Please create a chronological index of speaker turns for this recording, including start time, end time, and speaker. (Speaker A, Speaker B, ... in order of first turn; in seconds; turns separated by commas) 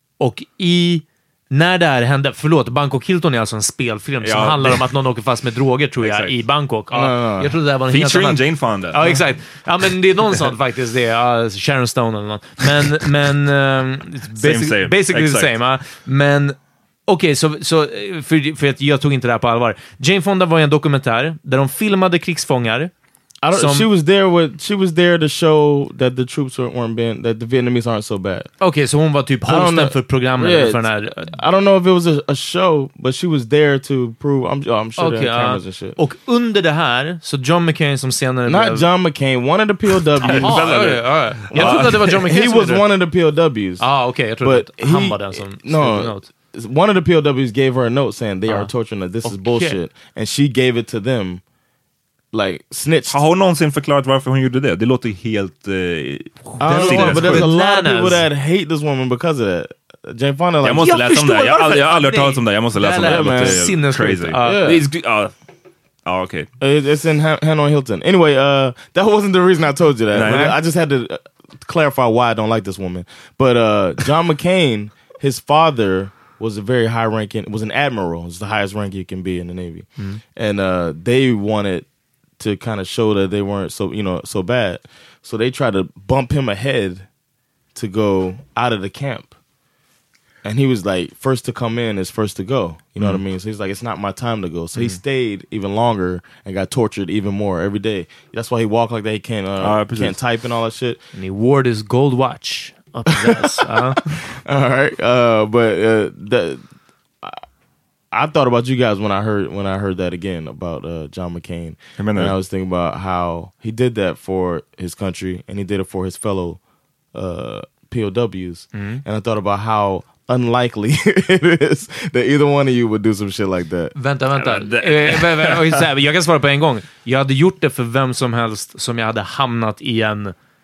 Speaker A: 0.2-22.9, Speaker B: 4.2-4.8, Speaker B: 6.0-6.3, Speaker C: 6.9-7.5, Speaker B: 7.9-9.2, Speaker B: 14.4-15.5, Speaker C: 23.4-28.5, Speaker A: 23.5-23.9, Speaker A: 28.6-31.4, Speaker C: 29.5-36.0, Speaker A: 35.0-38.9, Speaker C: 38.5-43.9, Speaker B: 40.2-42.0, Speaker A: 40.2-42.9, Speaker A: 43.8-46.3, Speaker C: 44.4-51.4, Speaker A: 49.2-49.8, Speaker C: 52.3-53.2, Speaker B: 53.1-57.5, Speaker A: 56.6-58.2, Speaker C: 56.6-60.9, Speaker B: 60.6-65.3, Speaker A: 60.8-64.6, Speaker C: 63.0-63.7, Speaker C: 64.4-64.8, Speaker B: 66.1-66.5, Speaker C: 66.6-81.9, Speaker B: 70.1-70.5, Speaker A: 70.2-70.5, Speaker A: 80.0-80.2, Speaker C: 82.4-87.1, Speaker C: 87.8-89.3, Speaker C: 90.4-101.0, Speaker B: 99.6-100.2, Speaker A: 101.1-104.0, Speaker C: 103.2-106.6, Speaker C: 108.1-116.6, Speaker B: 112.0-112.3, Speaker C: 117.1-123.9, Speaker A: 118.7-119.0, Speaker A: 124.0-130.3, Speaker B: 124.4-125.8